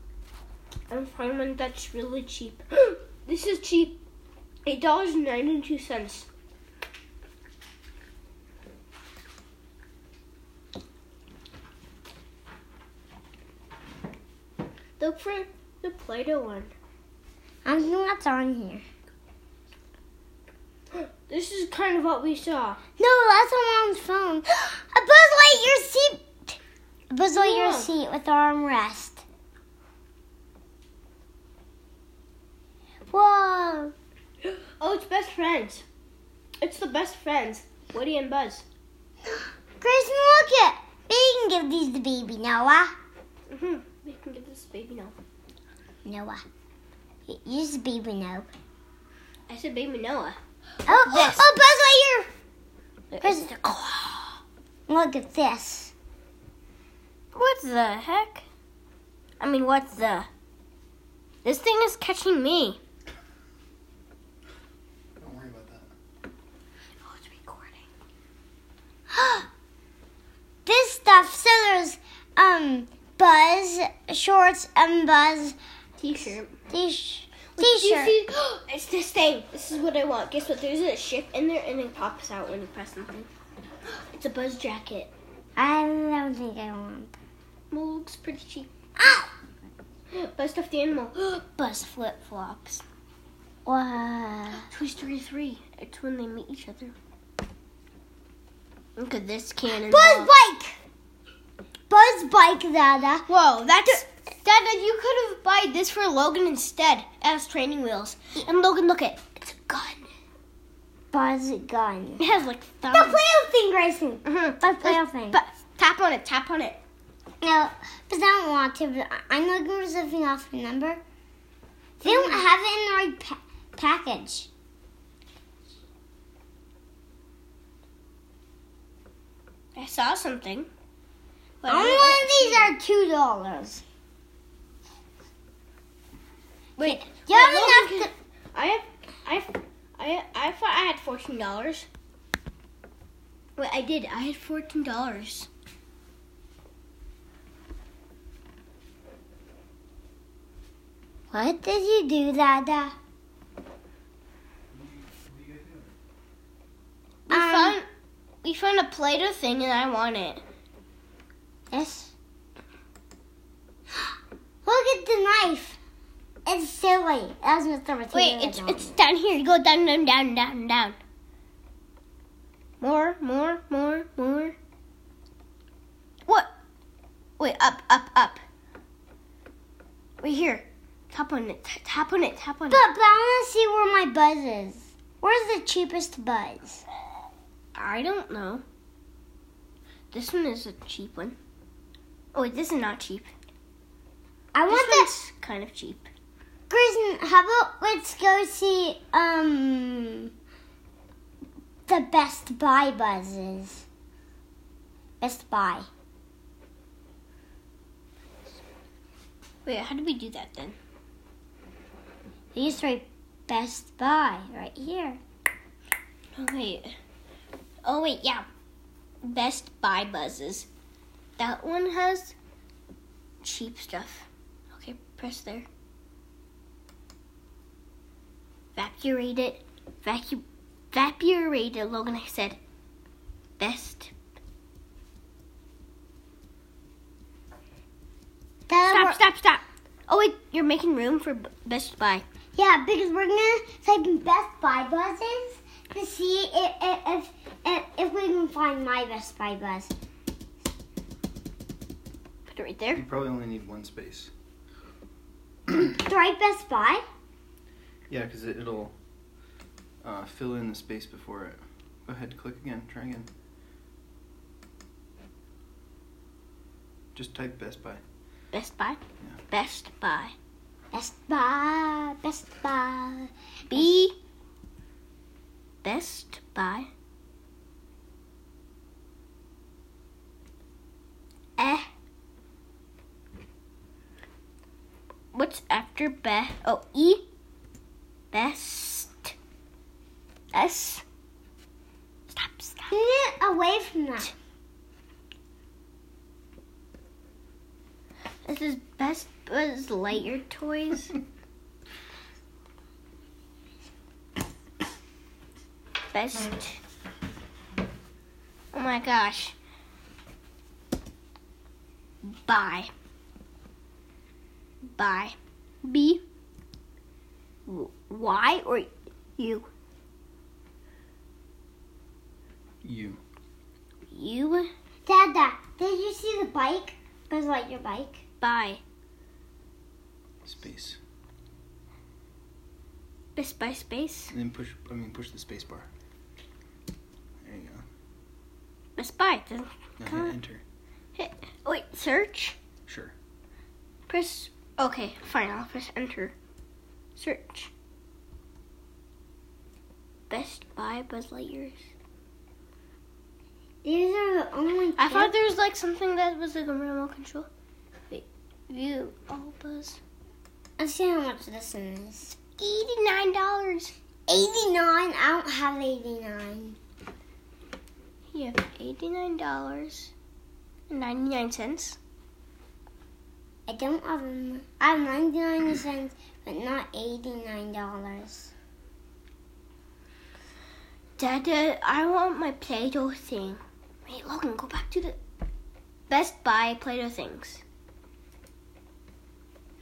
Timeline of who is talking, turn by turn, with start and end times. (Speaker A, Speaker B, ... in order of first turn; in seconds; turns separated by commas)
Speaker A: 0.9-4.0, Speaker A: 4.7-6.3, Speaker A: 15.0-16.7, Speaker B: 17.6-18.8, Speaker A: 20.9-22.8, Speaker B: 23.0-26.6, Speaker B: 27.1-29.2, Speaker A: 27.3-27.9, Speaker B: 33.1-33.9, Speaker A: 34.5-35.8, Speaker A: 36.6-38.6, Speaker B: 39.8-43.0, Speaker A: 43.5-45.1, Speaker B: 46.0-46.4, Speaker B: 47.3-48.5, Speaker A: 49.5-51.5, Speaker B: 50.9-52.3, Speaker A: 53.1-54.4, Speaker B: 53.2-53.5, Speaker B: 54.9-55.9, Speaker A: 57.3-58.5, Speaker A: 59.4-60.3, Speaker A: 61.4-62.8, Speaker C: 65.2-65.9, Speaker A: 67.0-67.8, Speaker B: 69.1-69.4, Speaker B: 70.6-75.5, Speaker A: 76.0-76.5, Speaker B: 76.7-78.2, Speaker A: 77.5-83.3, Speaker A: 83.9-85.1, Speaker B: 85.5-87.1, Speaker A: 87.7-88.7, Speaker B: 89.0-89.3, Speaker A: 90.1-92.8, Speaker B: 93.7-94.7, Speaker A: 94.6-97.0, Speaker A: 99.0-100.3, Speaker B: 99.7-100.8, Speaker B: 101.9-103.2, Speaker A: 103.3-110.1, Speaker B: 111.1-112.2, Speaker A: 112.2-113.2, Speaker B: 112.9-115.4, Speaker A: 114.2-116.8, Speaker B: 117.4-121.0, Speaker B: 122.0-124.5, Speaker A: 122.0-122.5, Speaker A: 129.8-130.7, Speaker A: 131.6-132.7, Speaker B: 131.7-133.8, Speaker A: 136.8-141.9, Speaker B: 136.8-138.1, Speaker A: 143.6-145.5, Speaker B: 151.3-152.9, Speaker C: 154.8-155.8, Speaker A: 157.3-157.9, Speaker B: 157.3-157.8, Speaker A: 158.4-160.4, Speaker B: 161.7-162.1, Speaker B: 164.7-165.8, Speaker B: 166.5-169.0, Speaker A: 168.1-171.0, Speaker A: 172.8-174.6, Speaker A: 177.4-178.4, Speaker A: 180.2-182.9, Speaker B: 182.7-186.8, Speaker A: 187.8-188.6, Speaker A: 190.1-191.4, Speaker A: 192.3-193.3, Speaker B: 194.5-195.1, Speaker A: 194.7-196.1, Speaker B: 196.7-200.3, Speaker B: 201.9-203.9, Speaker B: 205.2-205.9, Speaker A: 209.7-210.8, Speaker B: 212.5-215.2, Speaker A: 216.3-217.0, Speaker A: 217.8-218.5, Speaker A: 219.2-220.7, Speaker A: 221.4-222.3, Speaker A: 223.4-225.7, Speaker A: 228.8-232.6, Speaker A: 233.6-234.1, Speaker B: 238.7-239.2, Speaker A: 238.9-242.2, Speaker B: 242.6-249.9, Speaker A: 252.5-253.0, Speaker C: 252.9-254.3, Speaker B: 255.7-257.0, Speaker C: 258.1-258.9, Speaker C: 260.0-263.3, Speaker C: 267.1-268.0, Speaker A: 268.5-270.3, Speaker B: 270.9-273.9, Speaker A: 273.7-274.1, Speaker A: 275.8-276.9, Speaker A: 281.6-281.9, Speaker A: 285.3-287.2, Speaker A: 288.3-289.3, Speaker A: 290.5-291.0, Speaker A: 292.3-292.9, Speaker B: 292.9-294.3, Speaker A: 298.4-301.1, Speaker A: 306.1-306.8, Speaker A: 308.7-309.5, Speaker A: 312.2-312.9, Speaker A: 314.9-316.2, Speaker A: 317.6-319.7, Speaker C: 322.8-323.2, Speaker A: 324.1-324.7, Speaker B: 325.1-328.2, Speaker A: 328.4-328.8, Speaker C: 330.4-331.0, Speaker A: 333.4-334.3, Speaker C: 334.3-335.9, Speaker C: 337.4-337.8, Speaker A: 339.0-340.3, Speaker C: 340.0-340.6, Speaker A: 341.1-342.6, Speaker C: 342.9-343.1, Speaker A: 344.1-346.3, Speaker A: 347.1-347.7, Speaker A: 350.3-351.8, Speaker B: 353.8-355.3, Speaker A: 355.0-357.5, Speaker A: 358.1-360.0, Speaker B: 360.8-362.4, Speaker A: 362.6-363.9, Speaker B: 364.3-366.8, Speaker A: 368.3-370.1, Speaker A: 370.9-372.0, Speaker B: 373.7-378.5, Speaker A: 381.2-385.2, Speaker A: 386.1-387.6